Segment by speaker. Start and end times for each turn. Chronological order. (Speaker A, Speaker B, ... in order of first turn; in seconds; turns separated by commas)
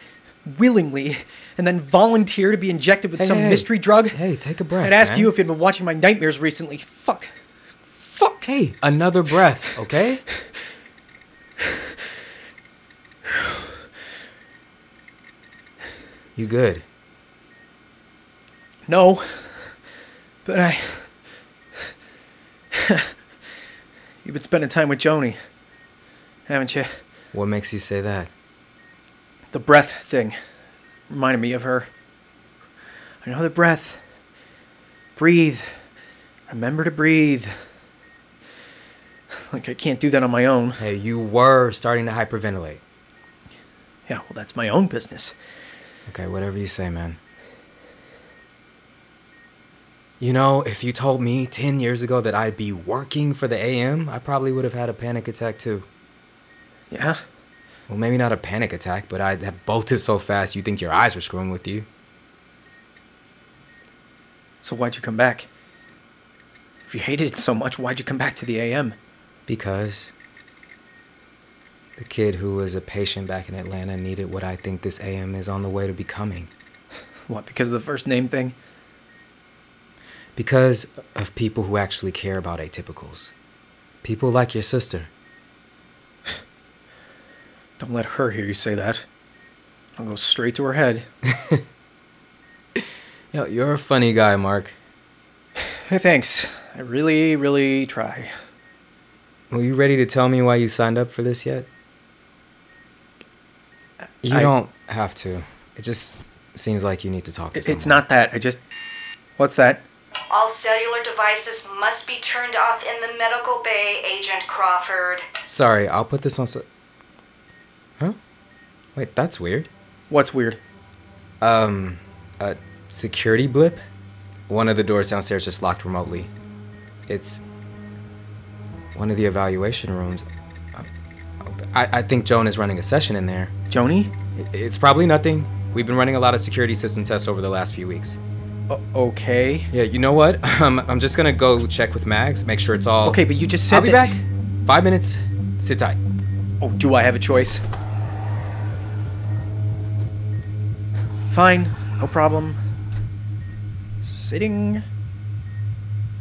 Speaker A: 0.5-4.2, Speaker B: 3.2-5.3, Speaker A: 4.8-7.3, Speaker B: 8.1-10.2, Speaker B: 16.4-16.9, Speaker A: 18.9-19.5, Speaker A: 20.4-21.1, Speaker A: 22.7-23.1, Speaker A: 24.2-25.4, Speaker A: 26.5-26.9, Speaker B: 27.3-28.3, Speaker A: 29.5-30.4, Speaker A: 31.1-31.9, Speaker A: 33.2-34.0, Speaker A: 35.2-35.7, Speaker A: 36.5-37.5, Speaker A: 39.5-40.8, Speaker B: 40.8-42.8, Speaker A: 44.1-45.4, Speaker B: 46.1-47.2, Speaker B: 50.2-55.9, Speaker A: 56.9-57.2, Speaker B: 57.9-61.9, Speaker A: 64.6-65.5, Speaker A: 66.9-69.0, Speaker B: 69.5-70.1, Speaker B: 72.0-76.5, Speaker A: 77.3-78.5, Speaker B: 80.4-83.3, Speaker B: 84.0-85.1, Speaker A: 87.8-89.0, Speaker A: 90.0-91.1, Speaker B: 91.3-91.6, Speaker B: 92.8-94.7, Speaker A: 95.9-98.3, Speaker B: 99.5-101.7, Speaker B: 104.2-108.0, Speaker A: 104.3-104.5, Speaker A: 107.5-108.6, Speaker A: 109.4-109.8, Speaker C: 110.3-115.3, Speaker B: 115.5-116.7, Speaker B: 119.0-119.7, Speaker A: 120.1-120.6, Speaker B: 121.4-123.8, Speaker B: 124.5-126.3, Speaker B: 127.1-127.4, Speaker B: 128.9-130.9, Speaker B: 131.4-133.5, Speaker A: 133.7-134.1, Speaker B: 134.3-138.2, Speaker A: 138.7-139.7, Speaker B: 139.7-146.0, Speaker A: 143.0-144.2, Speaker A: 146.6-147.6, Speaker A: 151.3-152.6, Speaker A: 154.0-154.8